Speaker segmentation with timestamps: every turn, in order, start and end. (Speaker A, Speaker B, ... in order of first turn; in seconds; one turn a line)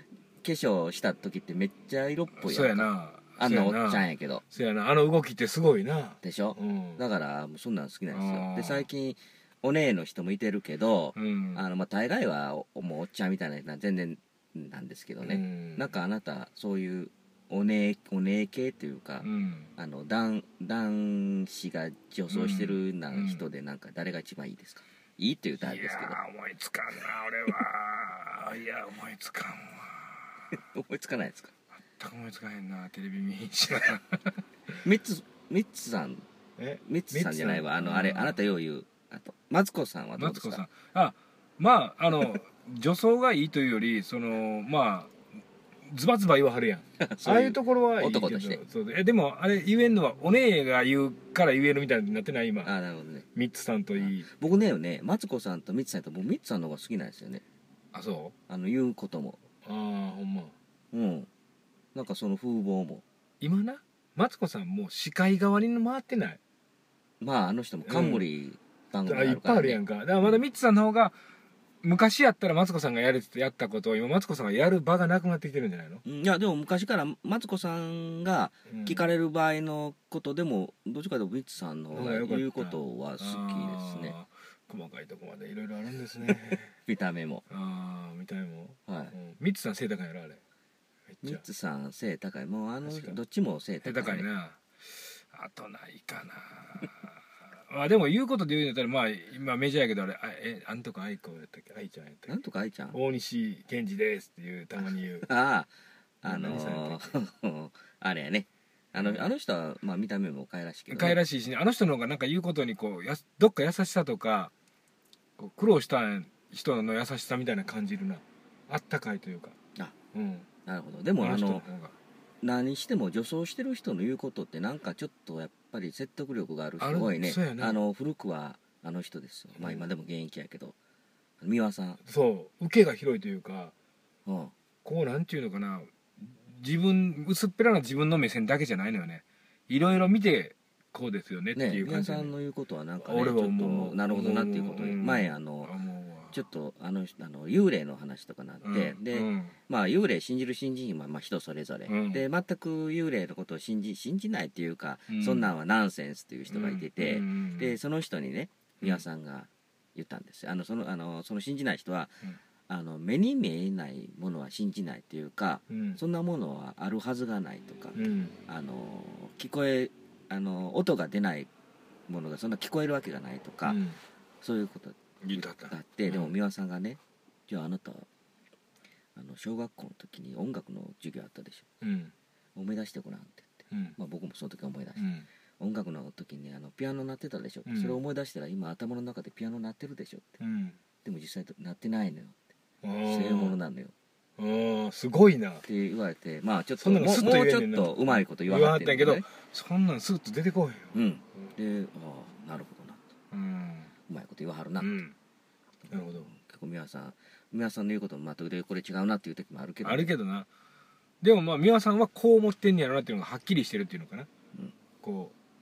Speaker A: 0.4-4.4
Speaker B: 2.4-7.0
Speaker A: 6.2-26.2
Speaker B: 8.1-8.9
Speaker B: 11.2-11.6
Speaker B: 15.2-16.0
Speaker B: 19.2-19.7
Speaker B: 22.3-23.4
Speaker B: 25.6-30.6
Speaker A: 30.5-31.5
Speaker B: 31.9-34.4
Speaker A: 34.8-36.2
Speaker B: 36.6-38.4
Speaker A: 36.8-40.6
Speaker B: 40.2-45.1
Speaker B: 45.9-52.7
Speaker A: 47.0-48.6
Speaker A: 52.6-53.3
Speaker B: 53.4-54.3
Speaker A: 53.9-57.4
Speaker B: 57.9-58.3
Speaker A: 58.5-59.4
Speaker B: 59.6-60.5
Speaker A: 60.9-61.3
Speaker A: 61.9-63.0
Speaker B: 63.4-66.4
Speaker A: 67.2-70.4
Speaker B: 67.8-68.2
Speaker B: 69.1-71.2
Speaker B: 71.8-76.0
Speaker A: 76.0-84.2
Speaker B: 78.7-79.1
Speaker B: 81.9-86.7
Speaker A: 86.5-87.5
Speaker B: 87.5-90.4
Speaker A: 88.9-89.1
Speaker B: 91.1-91.4
Speaker A: 91.2-94.3
Speaker B: 92.8-93.2
Speaker B: 93.8-102.3
Speaker A: 102.3-103.0
Speaker B: 102.9-105.3
Speaker A: 105.3-111.2
Speaker B: 106.2-107.2
Speaker B: 109.0-109.3
Speaker B: 110.9-114.5
Speaker B: 115.4-119.6
Speaker B: 120.1-120.5
Speaker A: 120.7-121.6
Speaker B: 121.2-122.0
Speaker A: 122.4-130.8
Speaker B: 126.8-127.8
Speaker B: 129.6-129.9
Speaker A: 131.4-132.0
Speaker B: 132.1-133.7
Speaker A: 134.3-134.5
Speaker B: 134.8-142.3
Speaker A: 141.5-145.7
Speaker B: 143.0-146.4
Speaker A: 146.3-171.5
Speaker B: 148.6-149.6
Speaker B: 151.9-152.3
Speaker B: 155.1-155.5
Speaker B: 156.5-157.8
Speaker B: 165.7-166.0
Speaker B: 167.9-168.4
Speaker A: 172.1-173.8
Speaker B: 173.6-174.0
Speaker A: 174.4-178.1
Speaker B: 175.2-176.3
Speaker A: 179.2-181.6
Speaker B: 181.8-182.1
Speaker A: 182.6-185.1
Speaker B: 183.7-184.0
Speaker B: 185.0-185.3
Speaker A: 185.6-190.4
Speaker B: 187.7-188.0
Speaker B: 190.4-190.8
Speaker A: 191.1-192.4
Speaker B: 192.8-193.6
Speaker A: 193.0-193.9
Speaker B: 194.4-195.6
Speaker A: 195.6-199.3
Speaker B: 196.8-201.5
Speaker A: 200.9-203.1
Speaker B: 203.3-203.9
Speaker A: 204.1-205.0
Speaker B: 204.8-205.1
Speaker B: 205.9-206.3
Speaker A: 206.3-210.1
Speaker B: 209.8-210.5
Speaker B: 211.2-214.3
Speaker B: 215.0-215.3